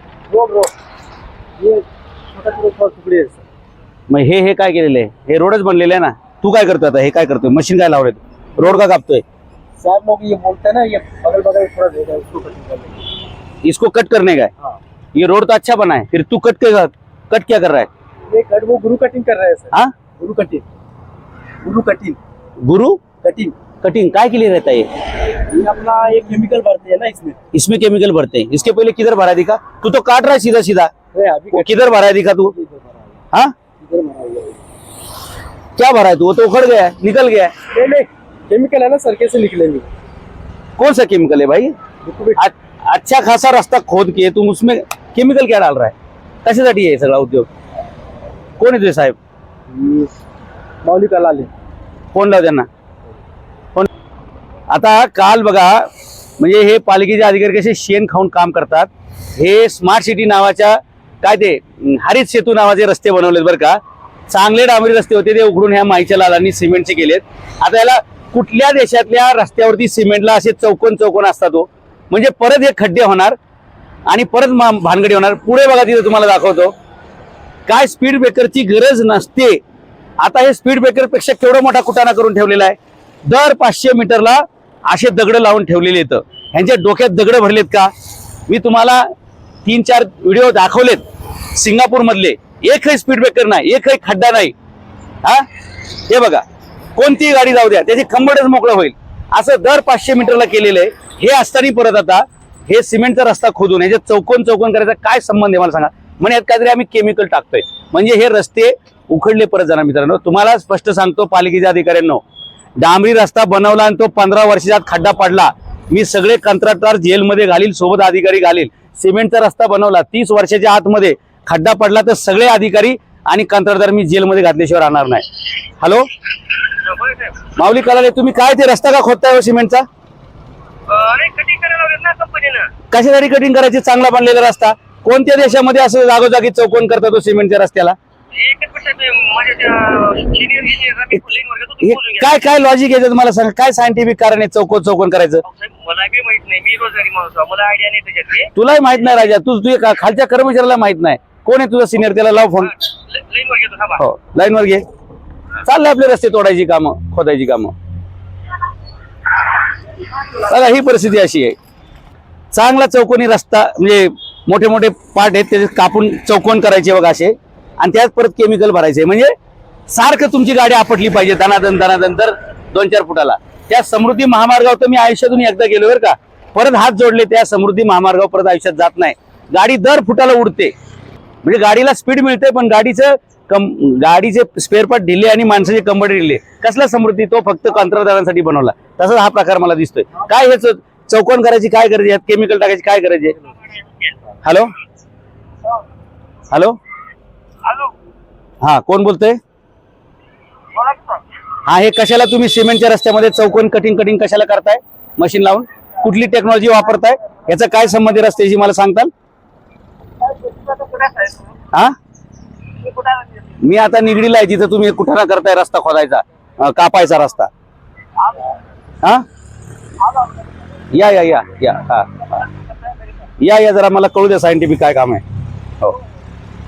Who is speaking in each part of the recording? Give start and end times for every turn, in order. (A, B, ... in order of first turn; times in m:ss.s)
0:00.3-0:00.7 A
0:01.6-0:03.4 A
0:04.1-0:09.2 B
0:09.8-0:13.0 A
0:13.6-0:14.5 B
0:15.2-0:17.9 B
0:18.3-0:20.6 A
0:21.6-0:22.2 A
0:22.6-0:23.0 B
0:23.2-0:23.6 A
0:23.8-0:24.9 B
0:25.5-0:27.4 A
0:27.5-0:30.9 B
0:31.1-0:33.2 A
0:31.5-0:32.5 B
0:33.8-0:34.6 A
0:35.8-0:37.5 B
0:37.7-0:39.9 A
0:40.8-0:41.7 B
0:42.0-0:42.4 A
0:42.4-0:45.9 B
0:46.4-0:47.5 B
0:48.6-0:49.2 B
0:49.7-0:50.1 A
0:50.8-0:51.5 A
0:52.1-0:52.7 B
0:54.7-0:55.9 B
0:56.4-1:13.4 B
1:14.1-1:16.7 B
1:17.7-1:19.6 B
1:20.2-1:27.9 B
1:28.5-1:29.1 B
1:29.6-1:34.5 B
1:36.1-1:36.4 B
1:37.0-1:52.2 B
1:52.8-2:05.2 B
2:05.8-2:06.0 B
2:06.8-2:07.4 C
2:07.6-2:09.8 B
2:10.9-2:12.7 C
2:12.9-2:18.0 B
2:18.3-2:22.3 C
2:21.8-2:25.4 B
2:25.4-2:28.5 C
2:28.5-2:32.8 B
2:33.1-2:34.0 C
2:34.0-2:34.8 B
2:35.6-2:37.7 B
2:40.3-2:41.6 B
2:42.5-2:49.3 B
2:49.9-3:00.7 B
3:01.4-3:13.4 B
3:14.4-3:14.7 B
3:17.6-3:17.9 C
3:18.6-3:19.4 B
3:20.7-3:21.2 C
3:21.6-3:29.1 B
3:30.2-3:31.5 C
3:32.8-3:33.5 C
3:33.6-3:37.5 B
3:40.9-3:42.2 B
3:43.4-3:45.2 B